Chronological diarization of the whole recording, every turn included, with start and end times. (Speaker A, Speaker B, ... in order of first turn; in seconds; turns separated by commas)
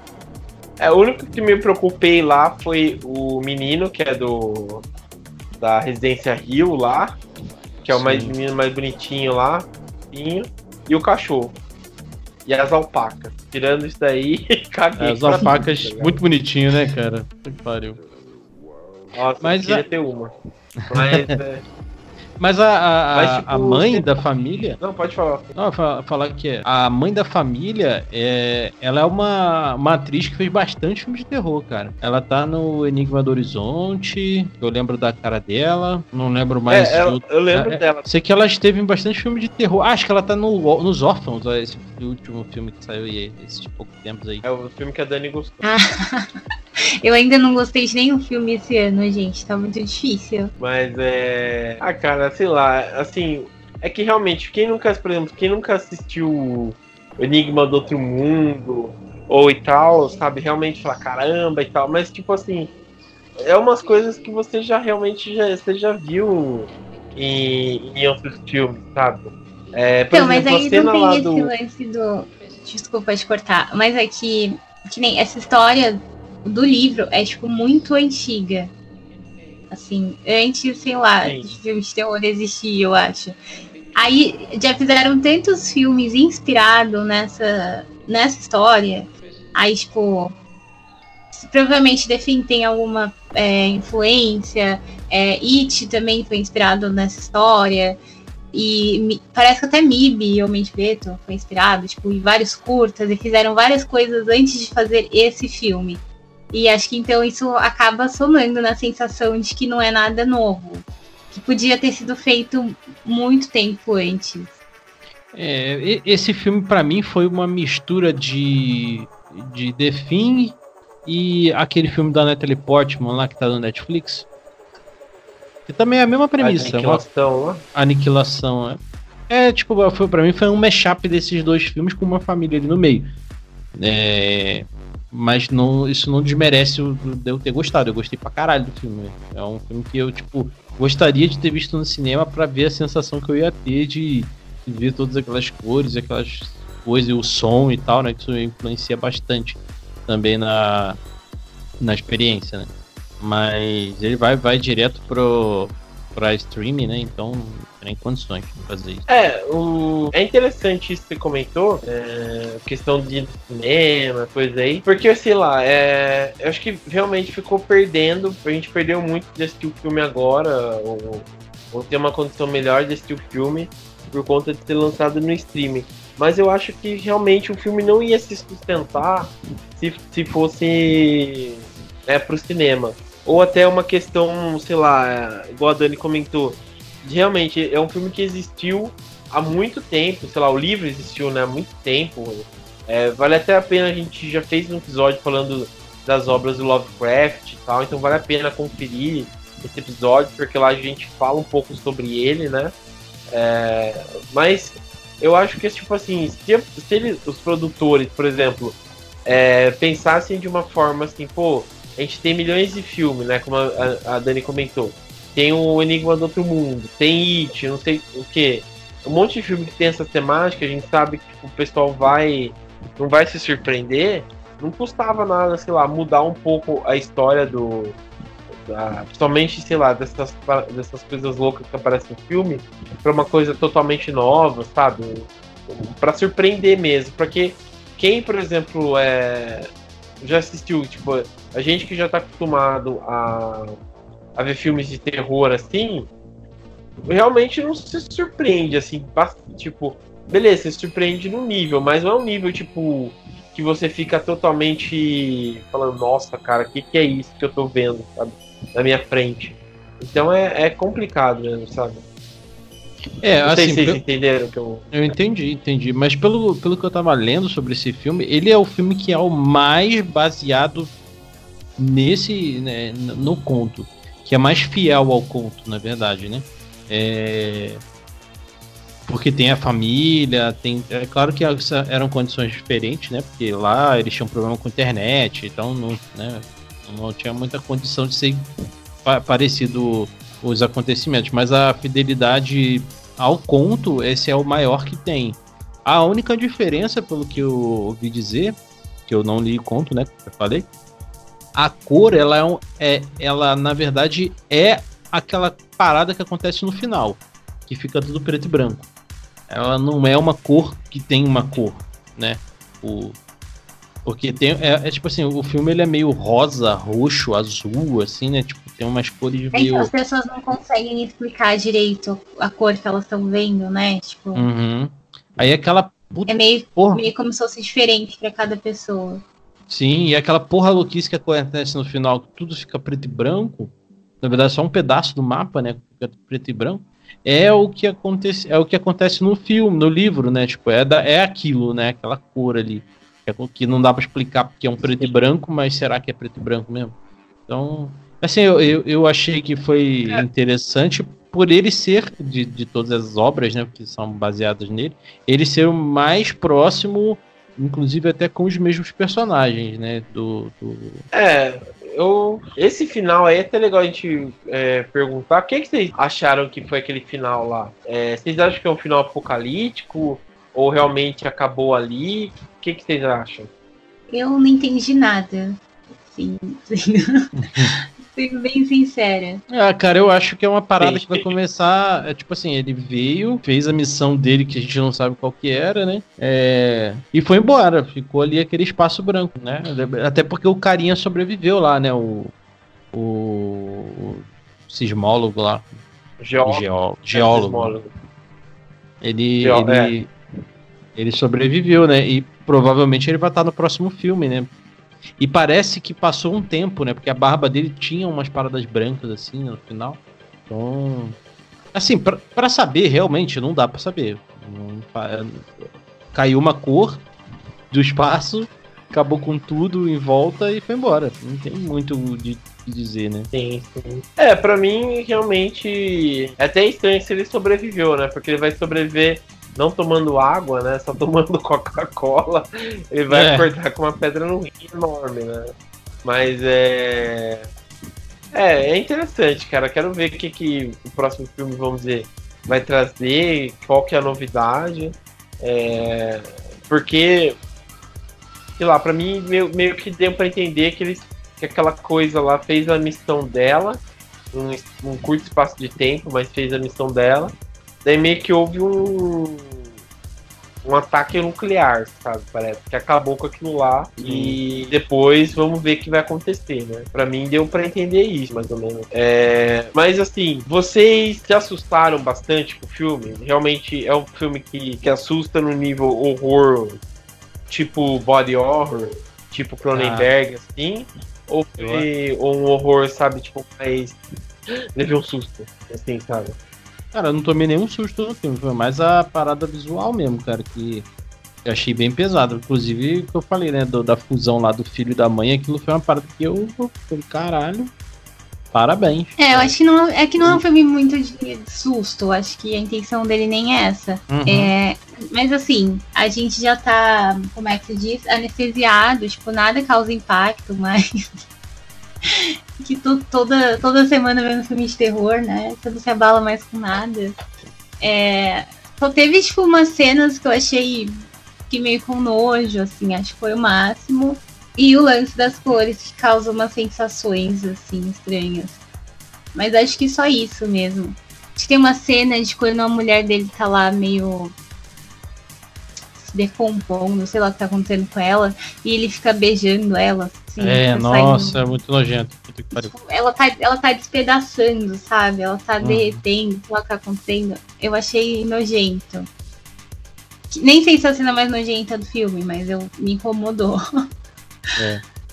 Speaker A: 0.8-4.8, Speaker A: 5.6-7.2, Speaker A: 7.8-11.6, Speaker B: 7.9-8.3, Speaker A: 12.5-16.2, Speaker B: 15.0-18.0, Speaker A: 19.1-20.4, Speaker B: 19.4-19.9, Speaker B: 20.8-21.4, Speaker A: 20.9-21.6, Speaker B: 22.4-24.8, Speaker A: 23.1-24.2, Speaker A: 24.8-25.5, Speaker B: 25.6-44.4, Speaker A: 36.7-38.1, Speaker A: 44.4-45.7, Speaker C: 45.6-46.3, Speaker C: 47.0-50.5, Speaker A: 50.6-62.7, Speaker A: 63.4-71.5, Speaker C: 70.1-78.7, Speaker C: 79.7-83.4, Speaker A: 81.2-81.6, Speaker C: 84.0-90.3, Speaker C: 91.3-98.0, Speaker C: 98.5-114.5, Speaker B: 115.3-124.3, Speaker B: 125.7-127.0, Speaker A: 126.4-127.6, Speaker B: 127.7-133.1, Speaker B: 133.8-151.0, Speaker B: 151.8-159.1, Speaker A: 159.1-202.7, Speaker A: 203.3-228.0, Speaker A: 228.7-239.7, Speaker A: 240.2-243.8, Speaker A: 244.4-246.1, Speaker A: 247.1-262.0, Speaker B: 263.2-264.0, Speaker A: 263.4-265.2, Speaker B: 264.9-270.9, Speaker B: 271.8-277.8, Speaker B: 279.1-288.5, Speaker B: 289.0-298.6, Speaker B: 299.1-300.7, Speaker B: 301.6-308.9, Speaker B: 309.5-313.2, Speaker B: 314.1-319.9, Speaker C: 319.5-324.5, Speaker B: 324.4-327.1, Speaker C: 326.3-329.2, Speaker B: 329.7-346.9, Speaker A: 344.8-345.2, Speaker B: 347.5-361.1, Speaker A: 361.1-373.5, Speaker C: 374.1-379.4, Speaker B: 377.4-377.7, Speaker B: 379.5-392.3, Speaker A: 380.8-381.2, Speaker B: 392.9-395.8, Speaker A: 396.2-397.9, Speaker B: 396.4-397.8, Speaker B: 399.0-400.1, Speaker A: 399.4-399.9, Speaker B: 401.0-404.5, Speaker B: 405.2-411.2, Speaker B: 411.7-417.1, Speaker B: 417.7-423.3, Speaker A: 423.3-435.5, Speaker B: 433.1-433.5, Speaker A: 436.0-437.5, Speaker A: 438.3-447.4, Speaker A: 448.6-457.3, Speaker A: 457.8-459.6, Speaker A: 460.6-476.8, Speaker B: 464.0-464.4, Speaker A: 477.5-484.0, Speaker B: 479.7-480.1, Speaker B: 481.6-481.9, Speaker A: 484.8-486.4, Speaker B: 486.9-490.9, Speaker B: 491.4-497.7, Speaker B: 498.5-499.5, Speaker C: 499.2-511.2, Speaker B: 504.1-504.5, Speaker C: 512.0-517.1, Speaker C: 517.8-521.0, Speaker C: 521.5-528.6, Speaker C: 529.3-534.3, Speaker C: 536.0-541.5, Speaker B: 540.4-542.7, Speaker C: 542.5-549.1, Speaker B: 545.6-546.0, Speaker C: 550.3-553.6